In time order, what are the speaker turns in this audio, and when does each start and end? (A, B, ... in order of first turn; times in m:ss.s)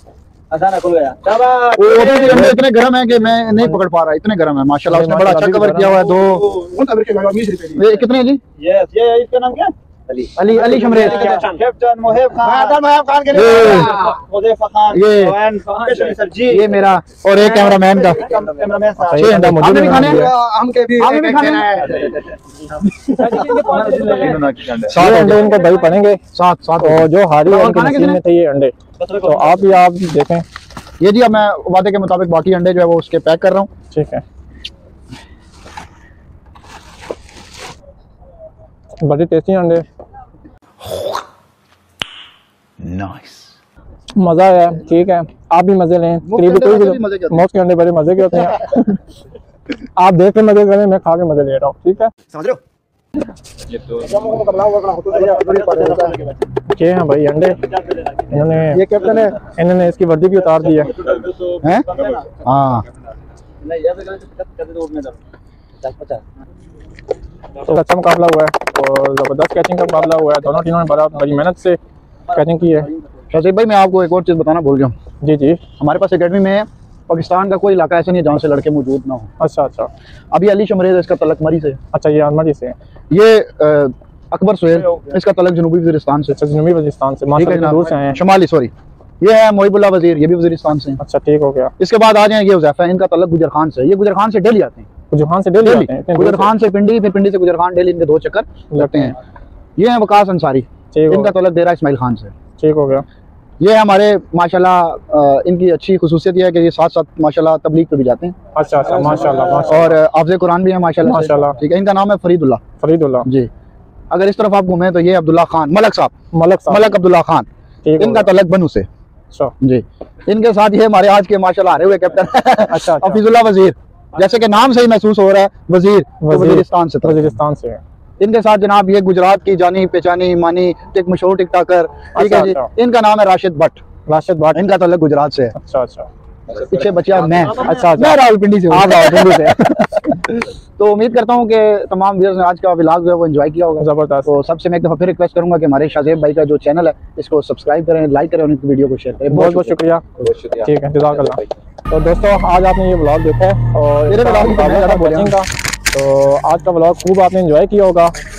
0:00.5-0:02.6 A
0:01.8-0:06.5 B
0:04.9-0:06.1 C
0:06.2-0:07.9 D
0:07.8-0:08.4 B
0:08.6-0:16.7 A
0:10.4-0:11.5 B
0:11.0-0:11.6 D
0:12.4-0:14.1 D
0:13.3-0:14.1 B
0:14.9-0:15.4 B
0:15.8-0:16.2 D
0:16.5-0:18.4 B
0:17.6-0:19.4 A
0:19.0-0:20.3 C
0:19.2-0:20.3 B
0:20.0-0:22.1 D
0:21.0-0:22.1 B
0:21.9-0:22.2 A
0:23.1-0:25.5 B
0:23.2-0:24.9 A
0:23.3-0:24.5 D
0:24.9-0:26.2 C
0:26.3-0:28.2 B
0:26.8-0:30.4 C
0:29.0-0:29.6 A
0:31.0-0:33.7 B
0:33.9-0:34.2 C
0:39.0-0:39.8 C
0:44.2-0:49.0 C
0:46.2-0:47.4 B
0:50.0-0:52.1 C
0:53.8-0:54.2 A
0:54.0-0:56.2 D
0:55.1-0:56.4 A
0:56.7-0:57.6 C
0:57.6-0:58.2 A
0:58.3-0:58.8 C
0:58.9-0:59.4 D
0:59.0-0:59.3 A
0:59.4-1:00.9 C
1:00.6-1:02.4 A
1:01.6-1:01.9 B
1:02.4-1:02.8 B
1:03.6-1:05.2 A
1:05.8-1:06.2 A
1:07.6-1:11.8 C
1:12.3-1:13.0 A
1:12.3-1:12.9 C
1:13.3-1:14.9 B
1:15.2-1:15.6 C
1:15.8-1:19.3 B
1:19.4-1:19.9 C
1:20.3-1:21.8 B
1:21.9-1:22.7 C
1:23.1-1:26.4 B
1:24.7-1:25.0 A
1:26.3-1:28.2 C
1:27.4-1:31.0 B
1:31.0-1:31.7 C
1:31.8-1:34.9 B
1:35.1-1:36.5 C
1:35.6-1:39.1 B
1:38.7-1:39.1 C
1:39.8-1:42.3 B
1:40.9-1:41.3 C
1:42.6-1:43.0 C
1:43.6-1:52.6 B
1:48.6-1:49.9 C
1:48.9-1:49.6 A
1:51.0-1:51.6 C
1:52.8-1:53.3 C
1:54.1-1:56.1 B
1:56.3-1:56.8 C
1:56.7-1:57.5 B
1:57.8-1:58.3 C
1:58.0-1:58.9 B
1:59.6-2:07.4 B
2:02.7-2:03.2 C
2:06.2-2:07.8 C
2:08.2-2:13.8 B
2:12.1-2:12.7 C
2:14.1-2:14.7 C
2:14.5-2:15.6 B
2:15.6-2:16.1 C
2:16.5-2:29.8 B
2:16.5-2:17.8 A
2:17.6-2:20.2 C
2:23.8-2:24.3 C
2:29.3-2:38.1 C
2:34.1-2:35.4 B